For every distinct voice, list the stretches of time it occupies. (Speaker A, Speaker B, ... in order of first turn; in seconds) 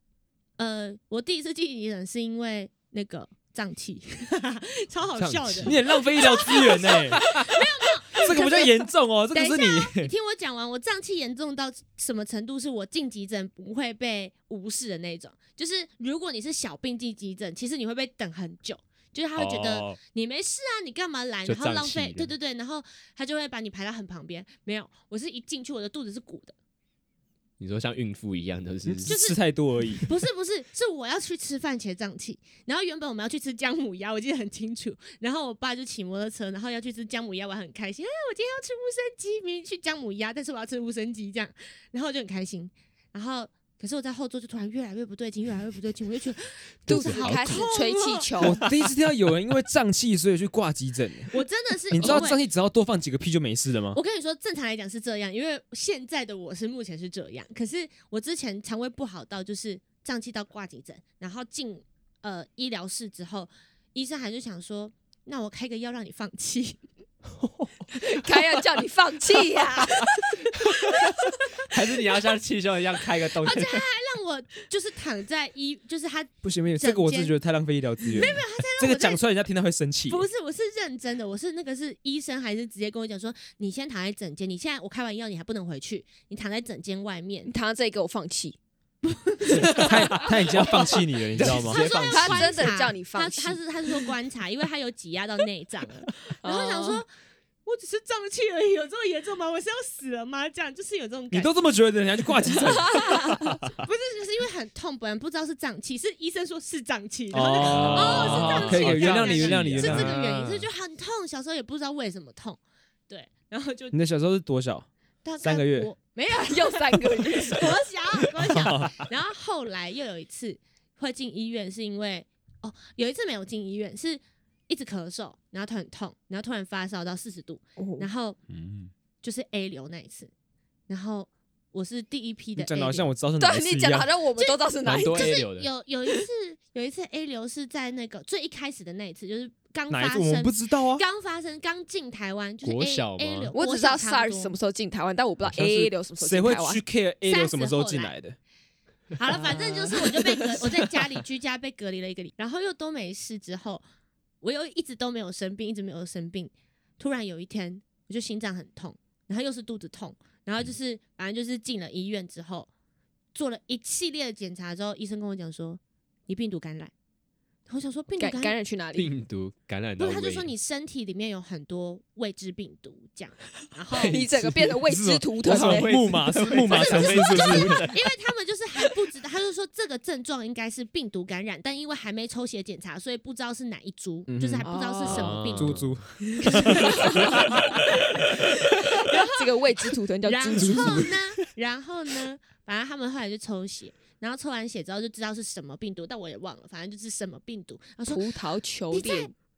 Speaker A: 0.6-26.5, 29.1-29.4, 30.0-48.6, 51.3-52.4, 53.9-66.8, 73.4-77.3, 78.1-79.2, 80.1-87.5, 89.0-89.9, 91.4-97.1, 97.7-101.5, 103.8-114.0, 115.2-128.4, 129.2-130.3, 130.9-133.1, 134.4-144.6, 147.2-148.2, 149.2-153.8, 154.4-162.7, 163.3-166.9, 167.7-168.6, 170.0-174.2, 176.4-185.8, 186.5-187.6, 189.0-198.3, 198.9-199.3
Speaker B: 5.2-5.8, 19.4-20.0, 21.4-22.3, 27.6-29.1, 46.9-47.7, 67.4-68.5, 70.7-73.8, 91.3-92.5, 107.6-110.7, 128.5-128.9, 134.9-135.7, 142.6-143.5, 168.9-170.5, 173.9-174.7, 175.4-178.0, 185.1-186.0
Speaker C: 5.7-7.4, 8.1-10.1, 28.9-30.1, 48.4-51.4, 51.9-54.0, 76.4-80.2, 89.7-91.8, 101.3-103.6, 107.3-110.1, 113.9-114.9, 115.4-115.9, 118.4-119.0, 132.6-134.1, 139.9-141.0, 145.5-148.4, 174.4-177.8, 184.3-184.7, 185.2-188.0, 190.6-191.2
Speaker D: 46.9-48.6, 68.0-70.5, 87.5-88.6, 89.5-90.3, 92.1-93.6, 96.4-97.0, 102.8-103.5, 116.3-117.8, 127.8-128.1, 133.4-135.4, 143.5-146.8, 149.7-150.1, 168.2-169.1, 174.1-176.0, 184.6-185.4, 186.3-187.6, 189.1-191.1, 198.1-199.3